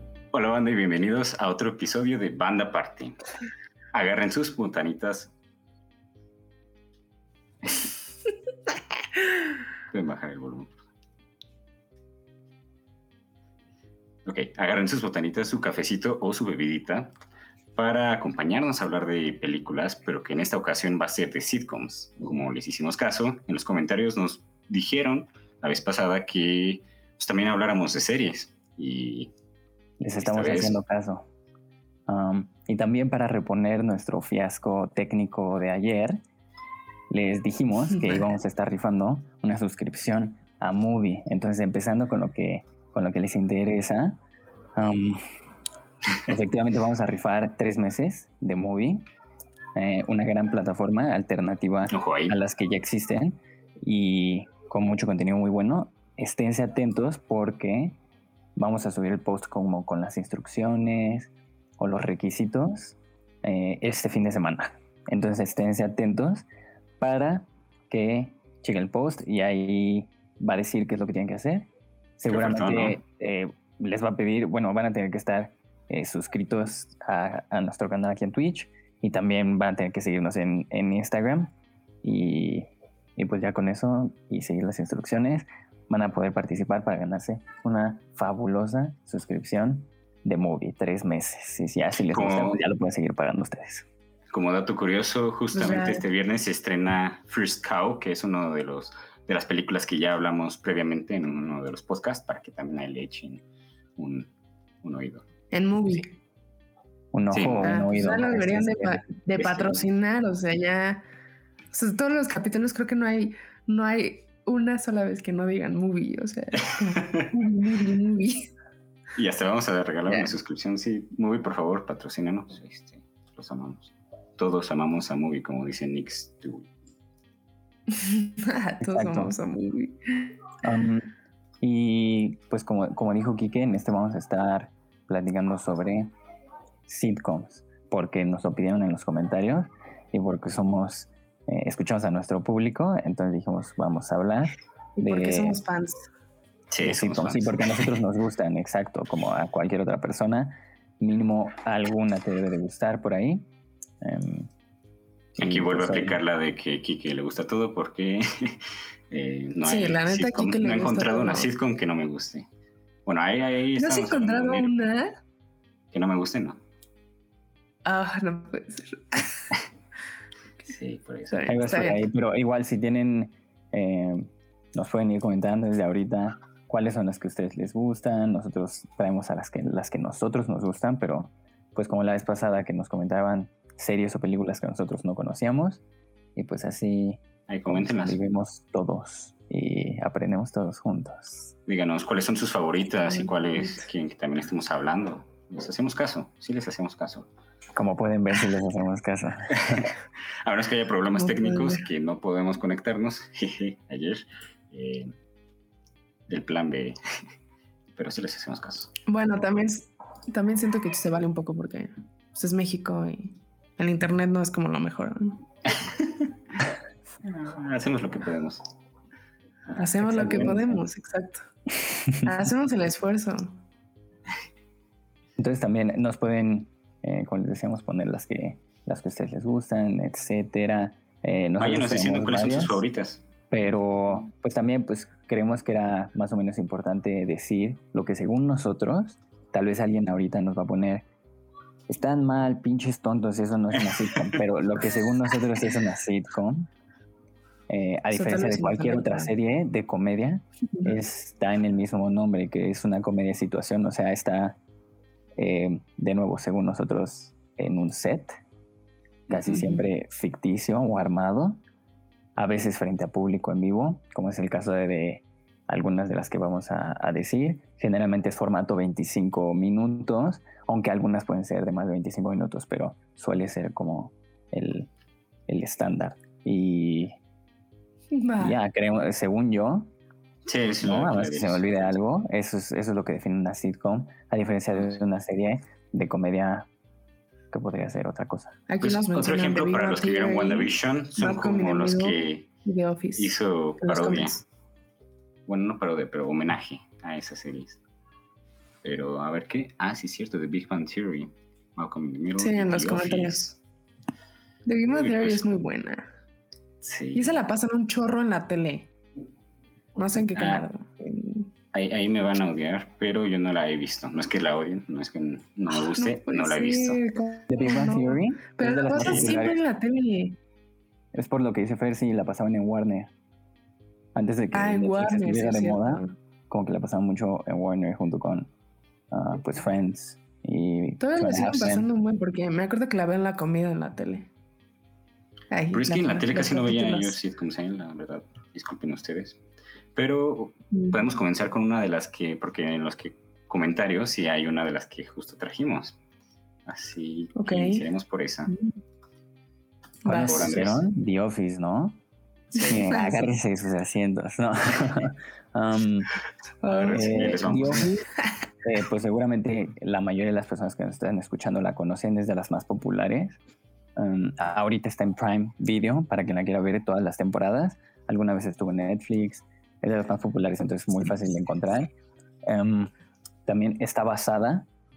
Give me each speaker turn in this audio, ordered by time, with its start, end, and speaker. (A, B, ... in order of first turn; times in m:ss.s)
0:00.3-0:03.2 A
0:03.9-0:05.3 A
0:09.9-0:10.8 A
0:14.2-0:17.1 A
0:17.8-0:29.3 A
0:30.0-0:31.2 B
0:30.2-0:30.8 A
0:32.1-0:36.2 B
0:37.1-0:44.2 B
0:37.9-0:38.2 C
0:44.8-0:45.2 B
0:46.2-0:49.0 B
0:49.7-0:58.0 B
0:51.9-0:52.4 A
0:58.6-1:06.4 B
1:07.0-1:11.7 B
1:12.2-1:21.5 B
1:12.3-1:13.0 A
1:22.0-1:33.8 B
1:32.1-1:32.6 A
1:34.3-1:43.4 A
1:35.5-1:36.0 C
1:44.0-1:44.3 A
1:44.8-1:45.2 A
1:45.5-1:46.1 C
1:47.1-1:49.0 B
1:47.3-1:47.7 A
1:47.6-1:51.0 C
1:49.4-1:49.8 A
1:51.7-1:58.5 C
1:56.6-1:57.3 A
1:59.2-2:06.7 A
2:07.9-2:10.3 C
2:08.8-2:09.3 B
2:10.6-2:11.1 B
2:11.6-2:16.1 B
2:16.9-2:25.6 B
2:25.0-2:26.0 C
2:26.7-2:28.0 A
2:26.8-2:33.4 B
2:34.0-2:34.5 B
2:35.3-2:36.2 B
2:35.4-2:42.5 A
2:39.6-2:41.5 C
2:43.0-2:44.7 A
2:43.8-2:45.1 C
2:45.9-2:46.6 A
2:47.8-2:49.5 C
2:50.7-2:51.9 A
2:51.3-2:52.0 C
2:51.5-3:05.8 B
3:06.4-3:11.5 B
3:07.5-3:08.2 A
3:11.7-3:17.3 A
3:17.7-3:19.9 B
3:19.6-3:19.9 A
3:20.4-3:25.1 A
3:21.2-3:21.8 C
3:26.3-3:27.0 A
3:27.9-3:28.9 A
3:29.1-3:35.4 C
3:35.8-3:36.3 A
3:37.2-3:38.6 A
3:39.7-3:41.4 C
3:40.0-3:40.8 B
3:41.9-3:42.2 B
3:42.2-3:43.6 C
3:45.4-3:52.8 B
3:51.6-3:53.2 A
3:53.5-4:01.0 B
4:01.9-4:06.7 B
4:07.7-4:14.6 B
4:08.1-4:09.3 C
4:15.4-4:18.4 B
4:19.3-4:21.6 B
4:19.4-4:19.8 C
4:22.4-4:34.9 B
4:35.5-4:37.1 B
4:38.1-4:38.6 C
4:38.4-4:39.9 B
4:40.4-4:42.0 A
4:40.8-4:46.7 B
4:47.5-4:48.6 B
4:48.7-4:54.4 C
4:48.8-4:52.5 A
4:53.2-4:54.4 A
4:55.5-4:57.8 A
4:58.8-5:03.5 A
5:02.4-5:03.5 C
5:04.6-5:06.0 C
5:04.9-5:05.5 A
5:06.8-5:07.4 A
5:07.1-5:08.9 C
5:10.0-5:11.5 C
5:10.3-5:10.6 A
5:11.7-5:17.0 A
5:15.9-5:20.4 C
5:17.5-5:19.6 B
5:19.0-5:19.3 A
5:21.1-5:23.1 B
5:24.1-5:28.5 B
5:24.5-5:26.1 C
5:29.1-5:31.9 B
5:31.0-5:34.3 C
5:35.5-5:37.2 C
5:35.7-5:39.4 A
5:39.9-5:46.0 A
5:46.7-5:48.5 A
5:47.4-5:47.8 C
5:50.0-5:50.5 C
5:50.0-5:52.0 B
5:50.1-5:50.8 A
5:52.5-5:53.3 C
5:52.6-5:56.1 B
5:56.6-5:57.5 C
5:56.7-5:58.0 A
5:56.9-5:58.1 B
5:58.6-6:03.4 B
6:04.0-6:11.9 B
6:12.4-6:12.9 B
6:13.4-6:14.7 B